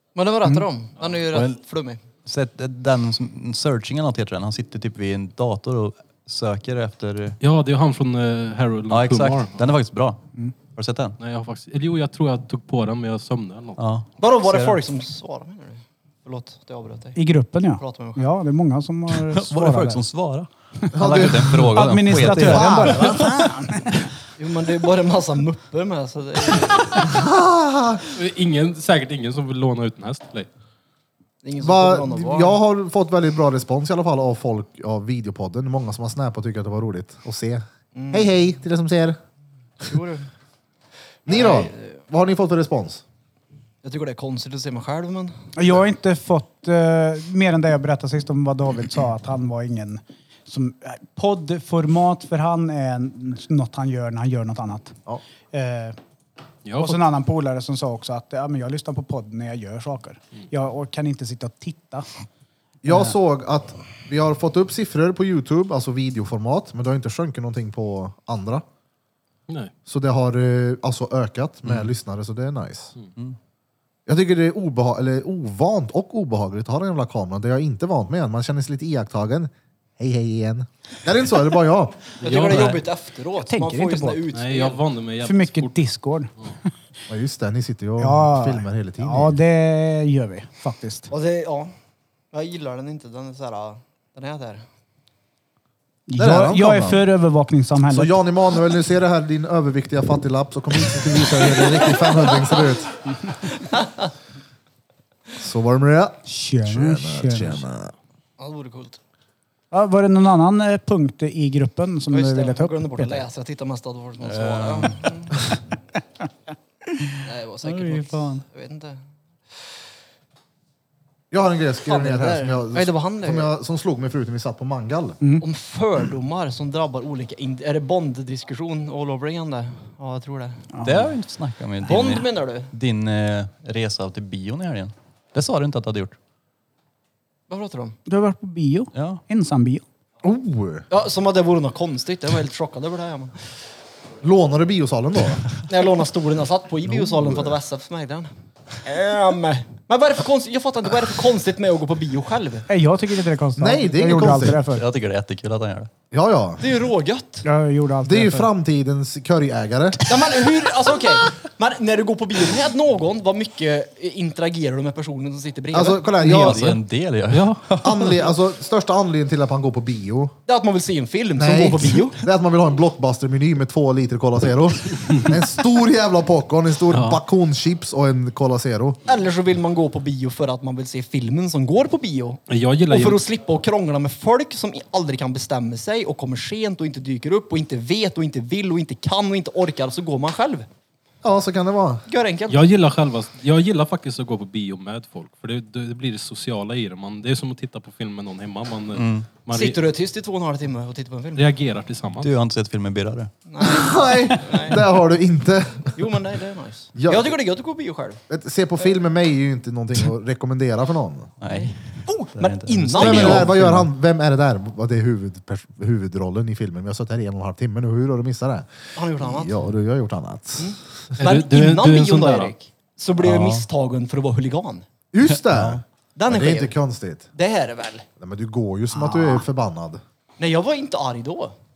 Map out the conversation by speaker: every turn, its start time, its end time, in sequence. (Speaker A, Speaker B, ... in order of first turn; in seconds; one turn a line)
Speaker A: 0.1-2.0
Speaker B: 1.3-1.6
Speaker B: 2.2-7.4
Speaker C: 7.4-9.6
Speaker B: 8.9-10.2
Speaker B: 10.7-11.2
Speaker C: 11.2-13.8
Speaker B: 13.8-14.8
Speaker A: 14.2-17.2
Speaker D: 17.1-20.0
Speaker A: 17.8-18.3
Speaker B: 19.1-23.3
Speaker E: 20.9-23.1
Speaker D: 21.1-24.1
Speaker A: 24.4-27.1
Speaker E: 27.0-28.0
Speaker C: 28.1-30.5
Speaker A: 31.4-32.6
Speaker E: 31.6-39.2
Speaker A: 37.9-38.3
Speaker A: 39.8-40.3
Speaker E: 41.2-43.0
Speaker A: 41.3-42.0
Speaker A: 43.8-45.4
Speaker D: 45.5-55.0
Speaker D: 55.5-56.0
Speaker C: 56.6-57.0
Speaker D: 56.8-62.1
Speaker E: 62.8-68.6
Speaker D: 62.9-63.1
Speaker E: 69.9-72.9
Speaker E: 74.1-82.1
Speaker A: 82.2-84.8
Speaker C: 82.2-82.8
Speaker D: 83.4-84.2
Speaker C: 84.3-85.8
Speaker D: 85.2-86.5
Speaker E: 87.1-89.3
Speaker D: 88.0-91.1
Speaker A: 91.1-91.7
Speaker A: 92.3-94.6
Speaker D: 96.1-98.1
Speaker E: 96.2-97.0
Speaker E: 97.9-102.9
Speaker E: 105.4-107.9
Speaker D: 106.3-107.6
Speaker A: 108.4-109.0
Speaker D: 109.7-113.2
Speaker A: 112.1-115.4
Speaker B: 114.2-115.2
Speaker D: 117.0-118.4
Speaker A: 117.2-119.0
Speaker E: 121.3-125.2
Speaker A: 121.8-123.5
Speaker A: 125.4-130.7
Speaker D: 130.7-131.1
Speaker B: 130.8-136.2
Speaker A: 131.8-132.7
Speaker A: 137.5-138.0
Speaker D: 138.1-139.8
Speaker B: 138.9-139.2
Speaker E: 140.2-140.8
Speaker A: 140.9-143.4
Speaker E: 144.2-145.5
Speaker A: 145.7-152.7
Speaker E: 146.9-147.6
Speaker D: 152.7-154.8
Speaker E: 153.6-154.6
Speaker B: 154.7-155.9
Speaker E: 156.1-156.6
Speaker A: 156.6-157.5
Speaker D: 157.4-158.5
Speaker E: 158.0-160.0
Speaker A: 160.1-166.1
Speaker E: 165.7-166.8
Speaker B: 166.2-168.2
Speaker C: 167.3-167.6
Speaker E: 167.8-170.3
Speaker A: 170.5-172.2
Speaker E: 171.4-179.0
Speaker C: 176.9-177.2
Speaker A: 179.1-190.7
Speaker C: 182.5-183.2
Speaker E: 191.2-192.0
Speaker A: 192.1-192.7
Speaker C: 192.5-199.8
Speaker B: 198.9-199.3
Speaker A: 199.5-201.4
Speaker C: 201.3-202.3
Speaker B: 202.2-203.3
Speaker A: 203.5-204.8
Speaker E: 203.6-205.9
Speaker A: 205.9-208.2
Speaker E: 206.9-207.3
Speaker E: 208.3-211.3
Speaker B: 211.4-213.9
Speaker A: 211.5-213.5
Speaker E: 212.9-220.7
Speaker A: 218.9-219.6
Speaker A: 220.6-224.8
Speaker C: 221.2-222.5
Speaker B: 223.2-223.6
Speaker E: 225.1-227.3
Speaker B: 225.2-225.8
Speaker A: 226.2-226.7
Speaker A: 227.3-228.1
Speaker E: 228.2-230.0
Speaker A: 230.4-231.5